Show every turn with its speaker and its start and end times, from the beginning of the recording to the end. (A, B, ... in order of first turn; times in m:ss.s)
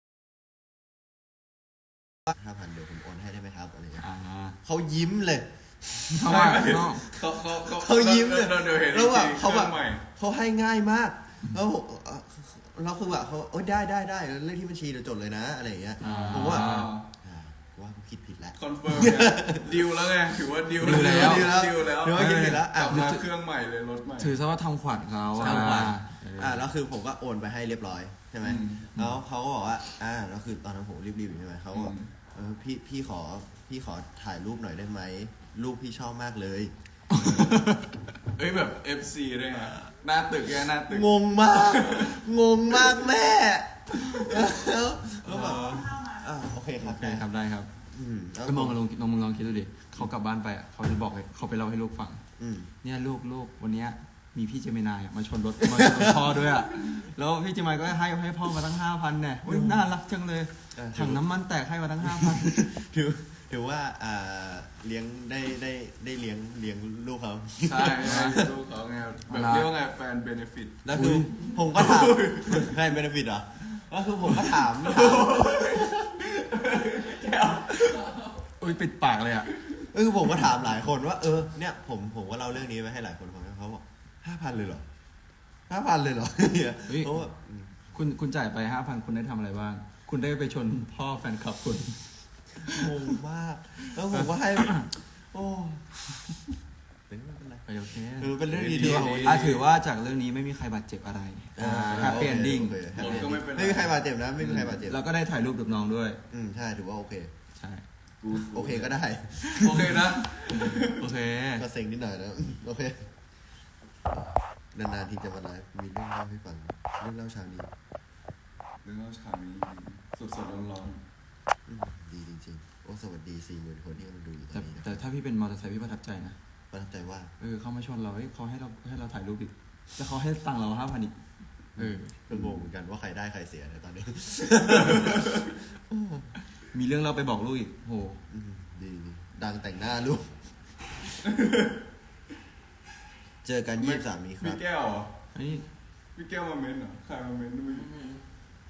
0:02.3-0:04.1 A
0:04.0-0:04.6 B
0:04.6-0:06.5 A
0:06.2-0:07.1 B
0:06.2-0:10.1 C
0:07.1-0:19.9 A
0:16.0-0:17.0 B
0:16.0-0:17.1 C
0:18.6-0:24.4 C
0:20.8-0:23.2 A
0:20.8-0:21.6 B
0:22.1-0:23.2 B
0:24.2-0:26.6 B
0:25.3-0:25.9 C
0:25.4-0:36.7 A
0:28.4-0:28.9 C
0:31.7-0:32.1 C
0:37.1-0:38.0 B
0:37.4-0:37.6 C
0:38.3-0:42.2 C
0:40.8-0:47.3 A
0:42.8-0:43.0 C
0:45.3-0:45.8 B
0:46.8-0:47.7 B
0:47.9-0:48.8 A
0:48.4-0:52.2 B
0:52.4-0:52.7 A
0:52.8-1:02.8 B
0:55.7-0:56.5 A
0:59.4-0:59.9 A
1:00.7-1:01.2 A
1:02.0-1:08.5 A
1:07.6-1:10.8 C
1:08.0-1:08.4 B
1:09.3-1:09.7 B
1:10.8-1:16.2 A
1:10.9-1:11.3 B
1:11.5-1:12.8 C
1:14.3-1:18.2 C
1:18.4-1:19.5 B
1:19.8-1:24.9 A
1:25.7-1:27.8 A
1:26.9-1:27.3 B
1:27.9-1:32.9 B
1:32.7-1:36.0 A
1:34.1-1:34.9 B
1:37.1-1:39.5 A
1:37.7-1:43.4 B
1:38.5-1:39.6 C
1:41.6-1:45.0 A
1:41.9-1:42.3 C
1:42.9-1:44.0 C
1:44.4-1:46.2 B
1:46.3-1:47.3 A
1:47.6-1:47.8 B
1:48.2-1:48.9 C
1:48.3-1:50.0 A
1:49.5-1:51.0 C
1:50.5-1:51.6 B
1:51.6-1:53.2 A
1:54.1-1:57.7 A
1:58.8-2:01.0 C
2:01.7-2:05.0 A
2:04.5-2:06.4 B
2:06.7-2:07.3 A
2:07.4-2:11.2 B
2:11.8-2:12.2 B
2:11.8-2:16.3 A
2:16.7-2:18.2 B
2:18.3-2:21.0 A
2:21.2-2:21.8 C
2:23.4-2:24.6 A
2:23.8-2:25.1 C
2:25.3-2:25.7 B
2:26.2-2:27.9 C
2:27.8-2:28.2 B